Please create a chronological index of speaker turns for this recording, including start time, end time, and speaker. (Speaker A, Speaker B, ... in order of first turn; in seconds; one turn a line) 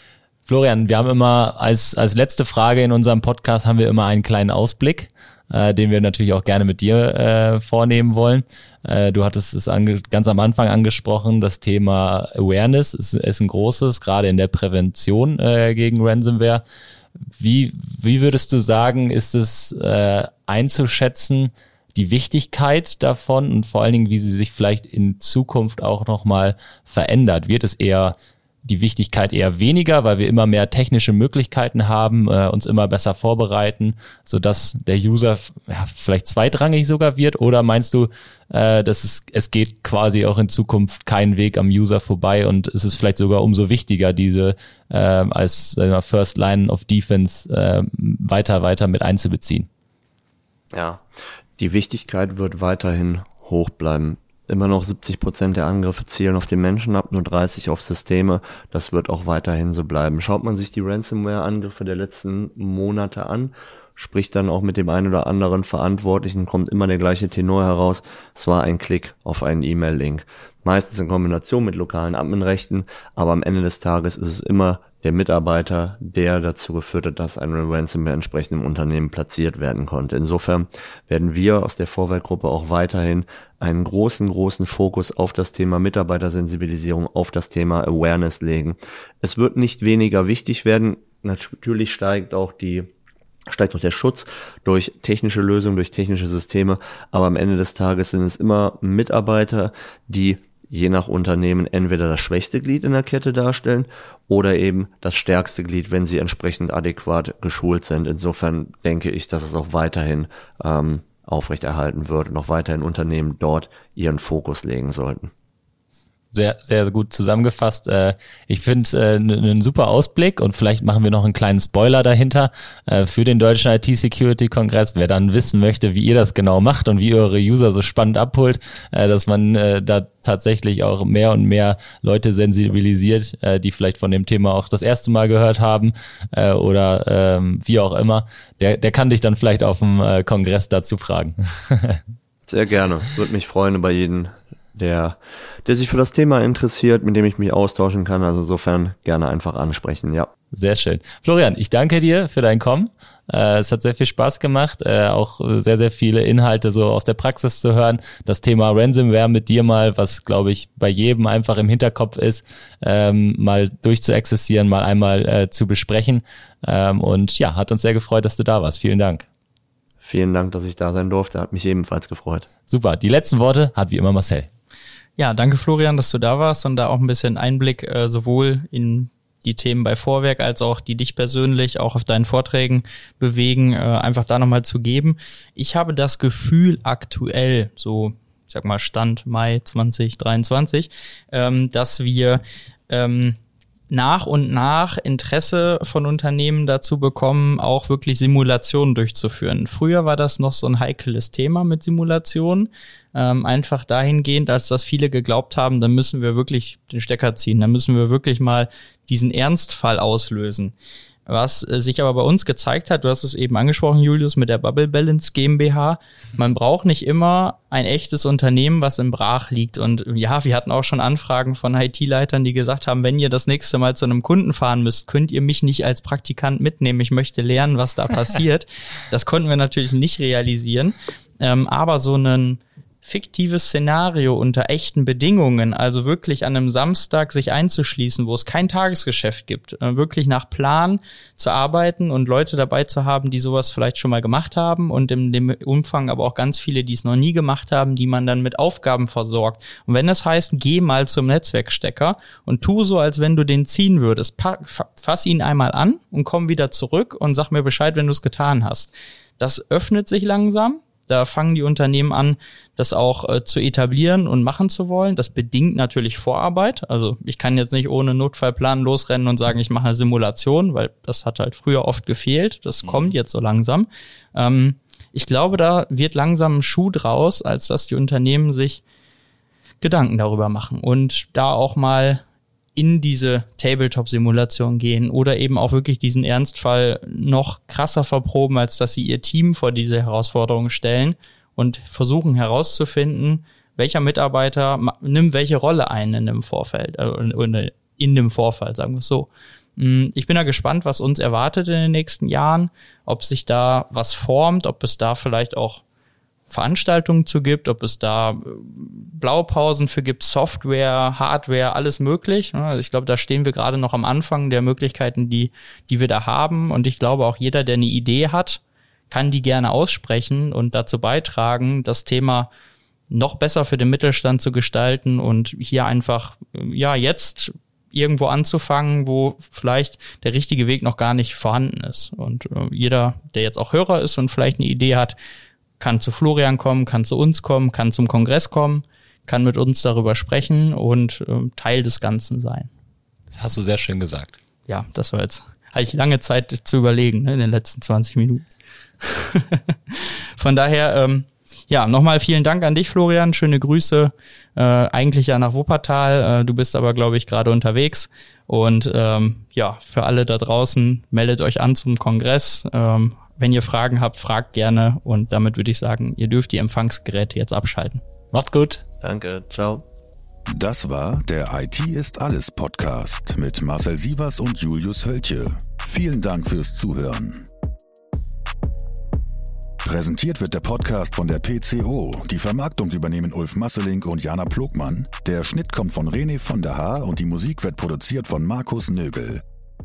Speaker A: 0.5-16.6
Speaker A: 17.4-49.7
Speaker B: 50.7-51.0
Speaker B: 51.6-92.9
Speaker B: 93.5-115.3
Speaker A: 116.3-142.0
Speaker B: 142.5-150.3
Speaker A: 150.5-169.3
Speaker B: 170.0-172.5
Speaker A: 172.7-174.5
Speaker C: 175.2-193.4
Speaker C: 193.9-210.7
Speaker C: 211.3-278.8
Speaker A: 272.8-273.1
Speaker C: 279.8-282.2
Speaker C: 282.8-305.8
Speaker C: 306.5-322.5
Speaker C: 323.1-335.2
Speaker C: 335.8-342.7
Speaker A: 343.3-344.3
Speaker C: 344.7-348.4
Speaker C: 349.0-368.0
Speaker A: 368.3-368.8
Speaker B: 369.0-369.8
Speaker D: 370.5-377.5
Speaker D: 379.8-389.4